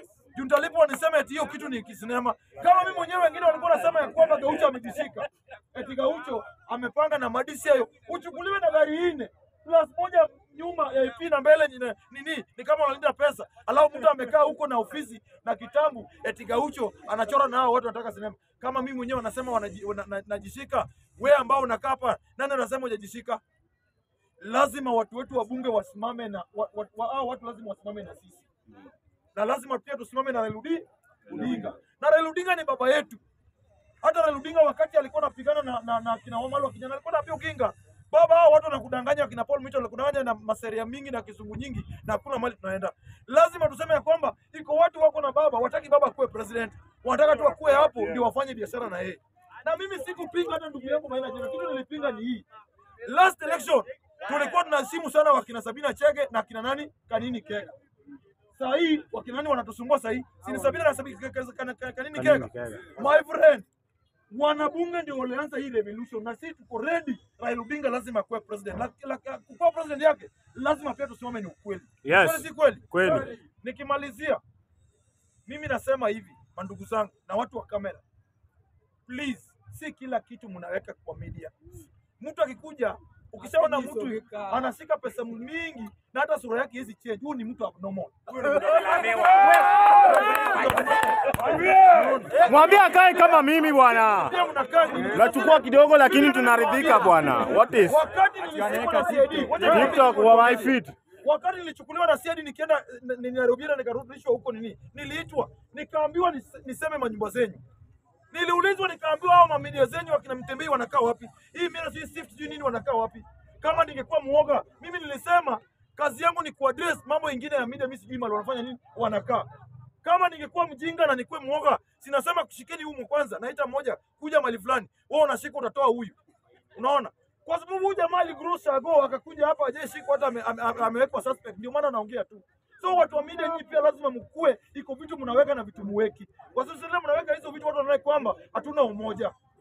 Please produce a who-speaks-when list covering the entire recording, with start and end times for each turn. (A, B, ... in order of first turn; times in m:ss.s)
0:00.3-0:23.4 A
0:24.4-0:28.5 A
0:29.4-0:33.2 A
0:31.3-0:31.7 B
0:34.0-0:52.4 A
0:53.0-0:57.7 A
0:58.6-1:03.7 A
1:02.1-1:02.9 B
1:04.3-1:14.4 A
1:12.0-1:13.3 B
1:15.5-1:18.0 A
1:19.1-1:21.5 A
1:22.2-1:32.8 A
1:28.7-1:30.5 B
1:32.4-1:34.4 B
1:34.1-1:47.6 A
1:35.1-1:38.0 B
1:38.7-1:41.0 B
1:48.3-1:59.5 A
2:00.0-2:06.2 A
2:06.8-2:19.3 A